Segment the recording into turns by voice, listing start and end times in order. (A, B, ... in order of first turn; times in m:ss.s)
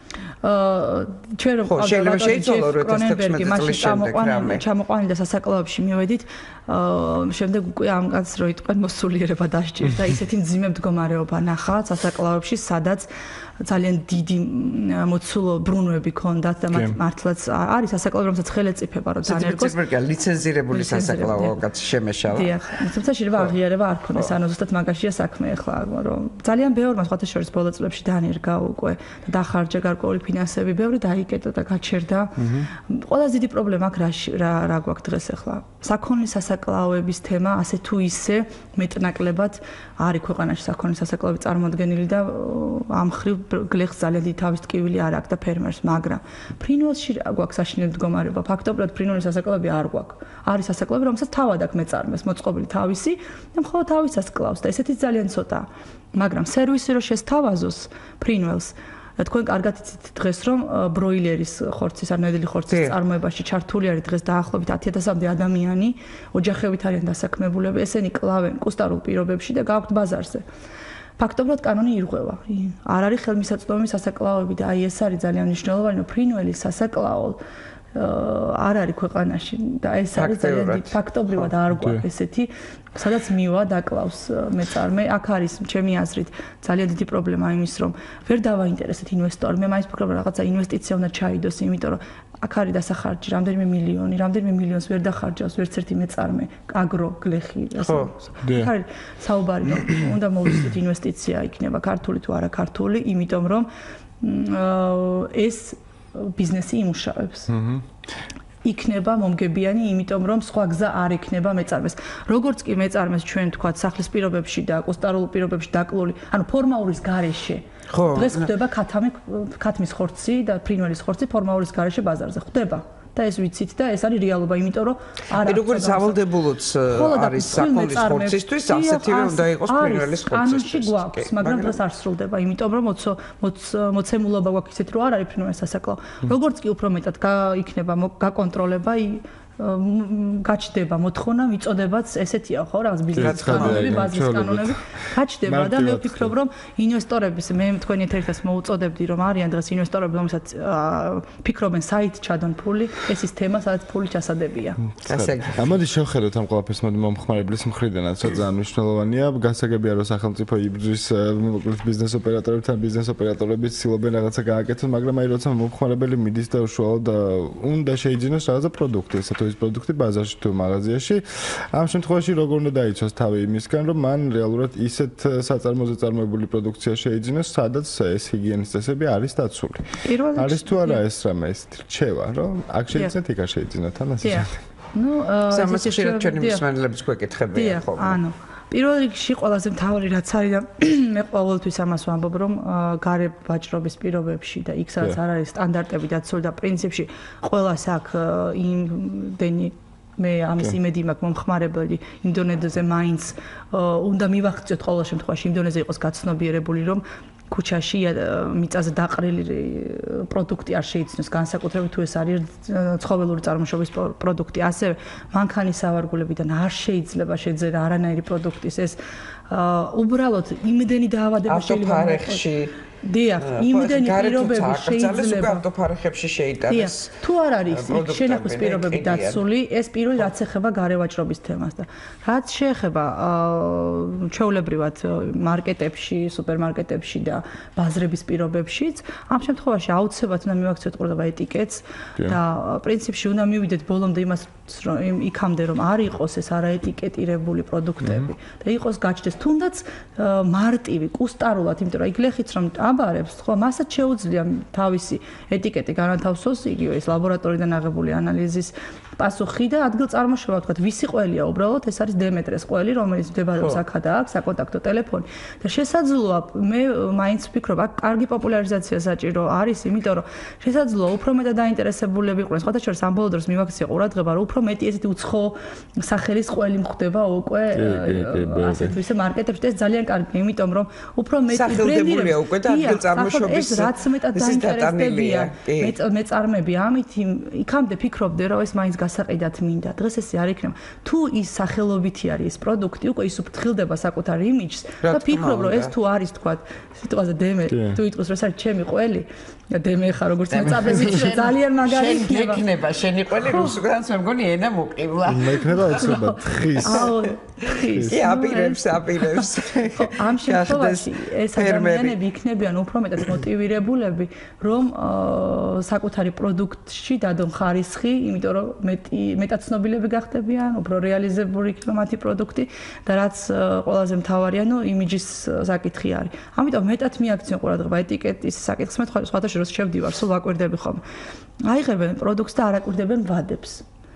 0:00.4-0:13.1 A
0:01.7-0:04.6 B
0:13.6-0:19.8 A
0:16.7-0:17.0 C
0:19.2-0:22.5 B
0:20.7-0:21.6 A
0:22.3-1:10.4 A
0:32.4-0:32.7 C
1:02.7-1:03.0 B
1:11.2-1:17.4 A
1:17.9-1:43.7 A
1:20.2-1:21.5 B
1:21.7-1:22.0 C
1:37.8-1:38.1 B
1:38.4-1:38.7 C
1:44.2-1:47.5 A
1:47.5-1:47.8 C
1:48.6-2:06.2 A
1:57.9-1:58.5 B
2:05.4-2:11.8 B
2:06.8-2:34.8 A
2:23.1-2:24.8 C
2:23.2-2:23.9 B
2:25.4-2:26.3 C
2:34.9-3:04.6 C
2:35.0-2:35.7 B
3:00.0-3:01.0 A
3:04.2-3:06.6 A
3:05.5-3:08.2 B
3:07.5-3:39.0 A
3:39.5-3:42.4 A
3:41.5-3:42.7 B
3:43.0-3:45.6 A
3:43.4-3:47.1 B
3:46.7-5:02.6 A
3:47.7-3:49.4 B
4:37.7-4:39.0 C
4:41.5-4:45.9 B
4:55.0-4:55.9 B
4:57.7-4:58.0 C
5:00.5-5:06.1 B
5:03.4-5:03.8 A
5:05.2-5:07.1 C
5:05.9-5:31.0 A
5:06.7-5:12.2 B
5:07.9-5:08.2 C
5:31.6-5:33.8 A